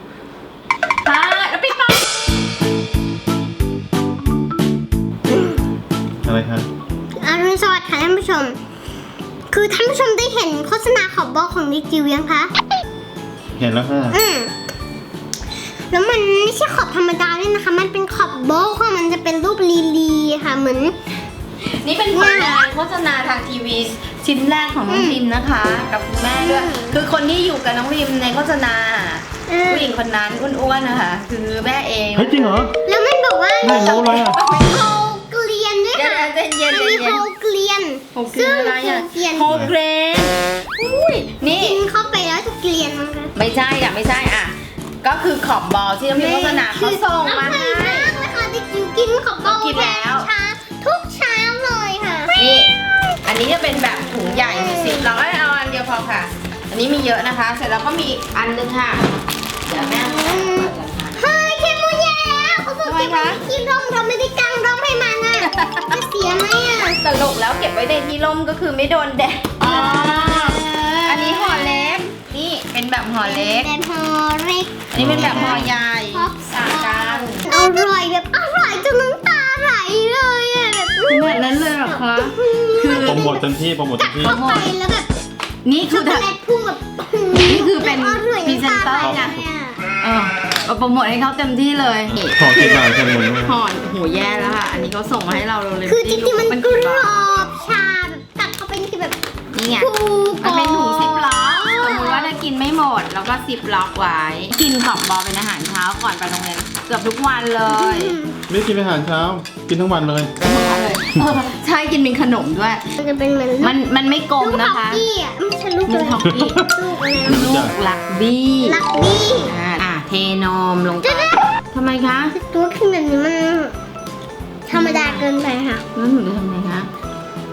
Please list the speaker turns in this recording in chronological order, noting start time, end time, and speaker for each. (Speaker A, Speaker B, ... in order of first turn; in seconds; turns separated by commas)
Speaker A: 1.0-2.1, Speaker B: 6.2-6.7, Speaker C: 7.2-8.6, Speaker C: 9.5-12.5, Speaker B: 13.6-14.2, Speaker C: 14.1-14.5, Speaker C: 15.9-20.9, Speaker A: 21.6-32.7, Speaker C: 22.1-22.6, Speaker C: 24.9-25.2, Speaker C: 26.4-26.9, Speaker C: 29.5-30.0, Speaker B: 32.1-32.7, Speaker C: 32.8-39.6, Speaker B: 33.6-34.4, Speaker A: 33.9-34.8, Speaker A: 35.9-37.2, Speaker A: 38.1-41.8, Speaker C: 41.4-43.3, Speaker A: 43.3-48.1, Speaker C: 46.1-52.6, Speaker A: 49.4-50.3, Speaker A: 52.3-52.7, Speaker A: 53.2-59.0, Speaker C: 54.5-55.0, Speaker A: 59.6-61.2, Speaker C: 60.3-60.6, Speaker C: 61.2-67.0, Speaker A: 62.8-63.4, Speaker A: 65.4-66.1, Speaker A: 66.9-73.7, Speaker C: 69.6-72.0, Speaker C: 73.2-83.5, Speaker A: 74.9-77.4, Speaker B: 75.0-75.7, Speaker A: 81.0-83.3, Speaker B: 82.9-84.3, Speaker C: 84.0-85.1, Speaker A: 84.2-84.7, Speaker A: 85.6-86.3, Speaker C: 85.9-89.8, Speaker A: 87.4-89.4, Speaker A: 90.0-92.9, Speaker B: 92.1-93.6, Speaker A: 93.4-97.2, Speaker C: 95.9-99.2, Speaker A: 99.5-108.2, Speaker C: 99.8-102.3, Speaker C: 107.7-108.3, Speaker B: 108.5-110.3, Speaker A: 110.4-112.9, Speaker C: 113.0-113.8, Speaker A: 113.6-115.0, Speaker C: 114.4-117.5, Speaker A: 115.8-116.7, Speaker B: 117.2-117.7, Speaker A: 117.2-118.8, Speaker C: 118.6-119.5, Speaker A: 119.4-122.3, Speaker C: 121.0-121.5, Speaker C: 122.3-123.7, Speaker C: 124.7-125.8, Speaker A: 124.7-125.2, Speaker A: 125.9-126.9